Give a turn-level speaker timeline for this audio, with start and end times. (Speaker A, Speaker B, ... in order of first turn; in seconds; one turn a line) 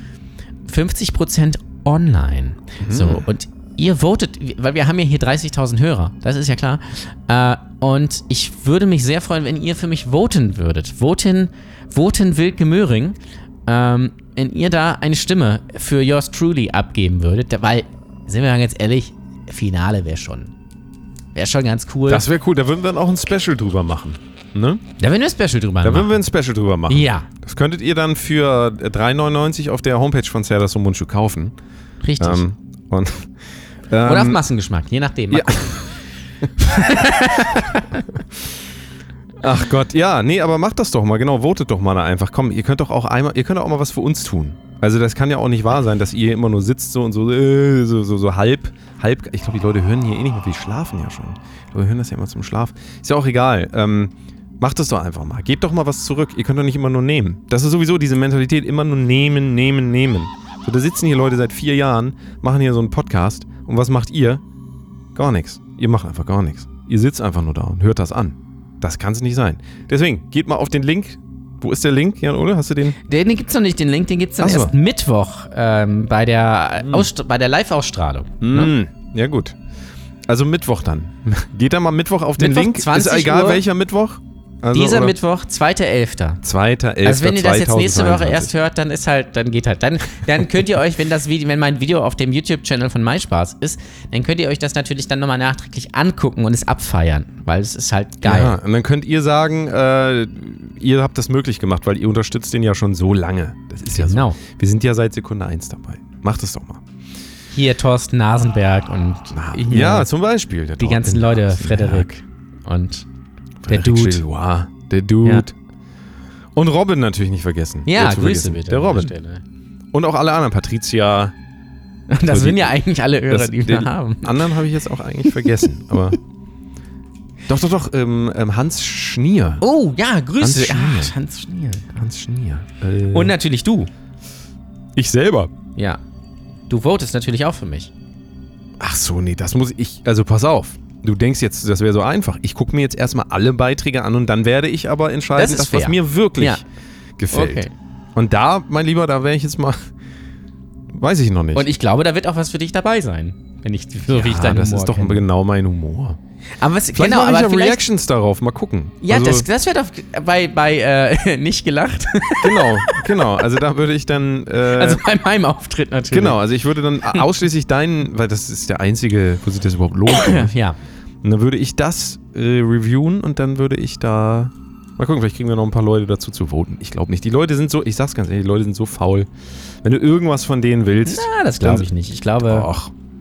Speaker A: 0.7-20.5
Speaker B: 2.8-3.2
Speaker A: 21.4-22.2
Speaker B: 22.1-24.8
Speaker A: 25.0-26.2
Speaker B: 25.8-31.5
Speaker A: 26.9-27.3
Speaker A: 32.0-32.5
Speaker B: 32.2-33.3
Speaker B: 33.9-34.4
Speaker A: 34.0-35.9
Speaker B: 35.3-35.9
Speaker A: 36.6-38.1
Speaker B: 39.4-64.4
Speaker B: 65.2-73.0
Speaker A: 73.0-78.7
Speaker B: 74.4-74.7
Speaker B: 76.8-77.1
Speaker B: 78.4-79.6
Speaker B: 80.3-85.2
Speaker A: 82.4-83.7
Speaker A: 84.7-86.4
Speaker B: 86.4-88.5
Speaker A: 87.0-98.5
Speaker B: 98.2-106.8
Speaker A: 103.9-104.4
Speaker A: 107.5-110.1
Speaker B: 109.3-112.1
Speaker A: 110.8-113.1
Speaker B: 113.6-115.5
Speaker A: 113.7-114.2
Speaker B: 116.5-119.1
Speaker A: 117.9-119.4
Speaker B: 119.9-121.3
Speaker A: 122.1-124.5
Speaker B: 122.2-122.8
Speaker B: 123.3-126.2
Speaker B: 127.5-129.6
Speaker A: 129.6-132.1
Speaker B: 130.4-131.1
Speaker B: 132.0-133.3
Speaker A: 133.1-133.9
Speaker B: 134.9-135.5
Speaker A: 136.7-137.9
Speaker B: 138.8-146.6
Speaker A: 145.4-146.6
Speaker B: 147.2-149.9
Speaker A: 147.3-147.7
Speaker B: 150.9-151.7
Speaker A: 151.5-155.2
Speaker B: 154.1-156.2
Speaker A: 156.6-157.8
Speaker B: 156.9-159.5
Speaker A: 159.0-163.3
Speaker B: 162.4-165.0
Speaker A: 164.7-166.4
Speaker B: 166.1-170.6
Speaker A: 170.1-170.8
Speaker B: 171.2-179.3
Speaker B: 179.8-181.9
Speaker A: 181.1-182.7
Speaker B: 182.4-182.9